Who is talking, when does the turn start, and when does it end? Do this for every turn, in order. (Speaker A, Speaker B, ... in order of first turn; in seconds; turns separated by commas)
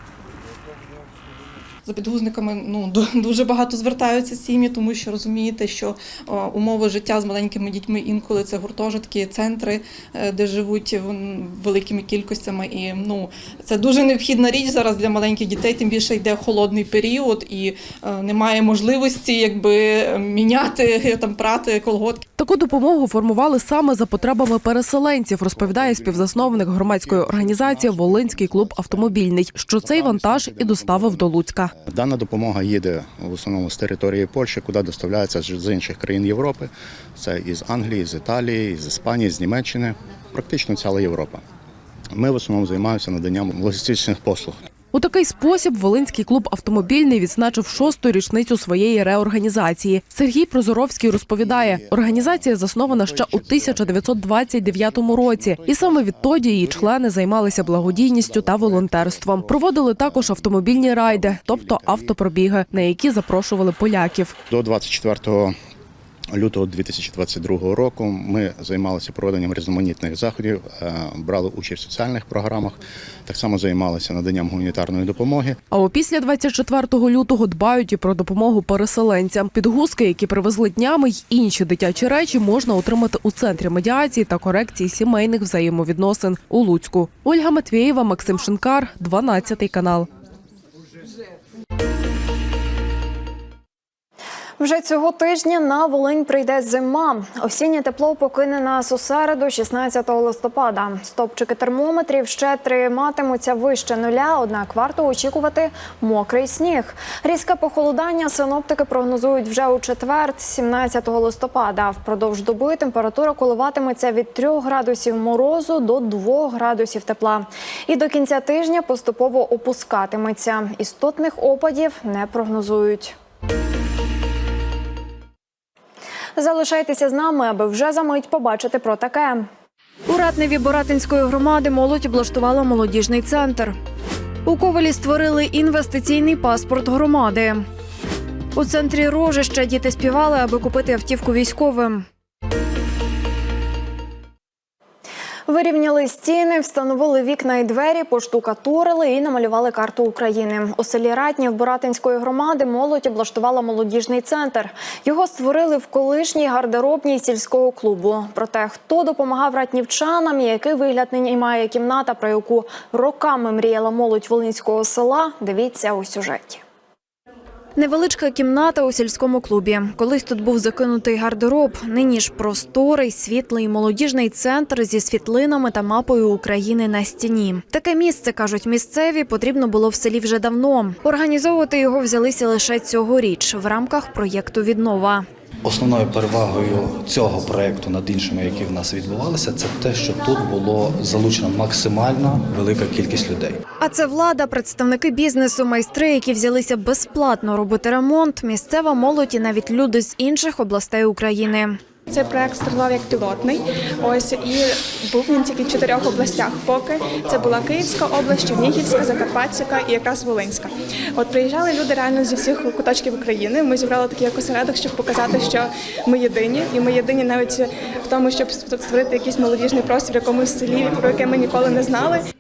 Speaker A: 1.9-22.2, Speaker B: 22.4-31.7, Speaker C: 25.5-29.2, Speaker C: 29.8-41.4, Speaker C: 42.1-44.6, Speaker B: 44.9-64.3, Speaker C: 51.4-56.9, Speaker C: 57.6-62.1, Speaker C: 64.5-65.5, Speaker C: 66.3-75.6, Speaker B: 75.7-90.1, Speaker D: 94.6-123.2, Speaker D: 126.4-129.5, Speaker D: 130.1-133.7, Speaker D: 134.4-137.6, Speaker D: 138.6-142.1, Speaker D: 145.5-166.6, Speaker D: 167.8-185.2, Speaker E: 185.7-193.6, Speaker D: 193.8-201.8, Speaker F: 202.1-222.2